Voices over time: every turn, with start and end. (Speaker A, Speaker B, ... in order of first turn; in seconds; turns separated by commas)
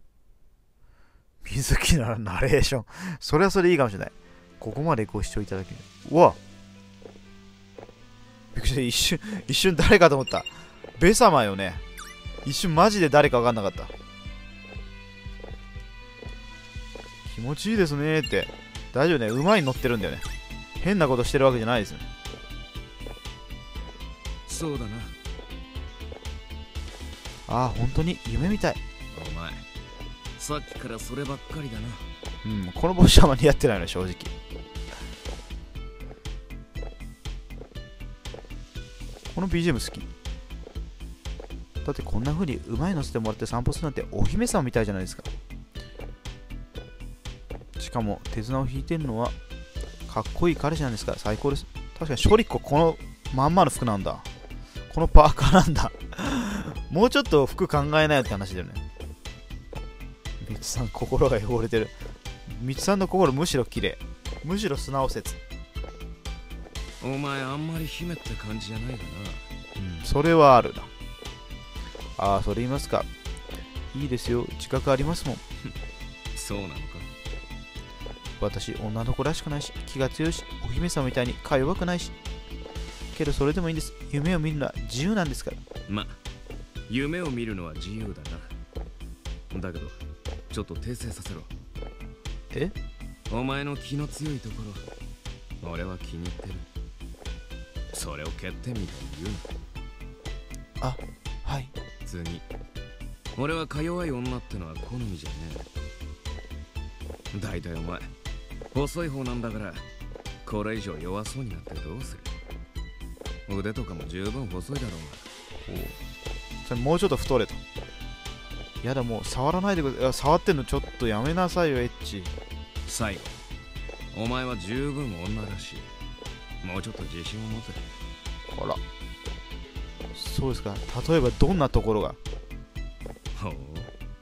Speaker A: 1.4-6.4, Speaker A: 8.5-11.8, Speaker A: 12.4-13.9, Speaker A: 17.3-20.3, Speaker A: 20.8-22.1, Speaker B: 24.5-25.1, Speaker A: 27.5-28.8, Speaker B: 29.1-29.6, Speaker B: 30.4-32.1, Speaker A: 32.4-34.3, Speaker A: 39.3-40.1, Speaker A: 41.8-45.3, Speaker A: 47.8-49.4, Speaker A: 50.1-54.3, Speaker A: 54.9-58.8, Speaker A: 60.4-61.9, Speaker A: 62.5-65.4, Speaker B: 67.0-69.5, Speaker A: 69.8-70.9, Speaker A: 72.2-73.1, Speaker A: 73.9-75.4, Speaker B: 76.4-77.1, Speaker A: 78.4-82.1, Speaker A: 83.1-85.6, Speaker B: 85.9-86.2, Speaker B: 86.9-88.5, Speaker B: 89.5-90.0, Speaker B: 90.5-91.5, Speaker B: 93.3-94.8, Speaker B: 95.6-96.7, Speaker B: 97.9-99.5, Speaker A: 100.8-101.7, Speaker B: 102.0-102.4, Speaker B: 103.3-105.7, Speaker B: 107.3-108.1, Speaker B: 108.7-109.8, Speaker B: 110.5-112.3, Speaker B: 113.5-115.2, Speaker A: 115.6-116.0, Speaker A: 116.7-117.6, Speaker A: 118.8-122.3, Speaker B: 122.9-123.4, Speaker B: 124.1-125.9, Speaker B: 126.6-127.8, Speaker A: 128.5-128.8, Speaker A: 130.1-132.2, Speaker B: 133.3-133.9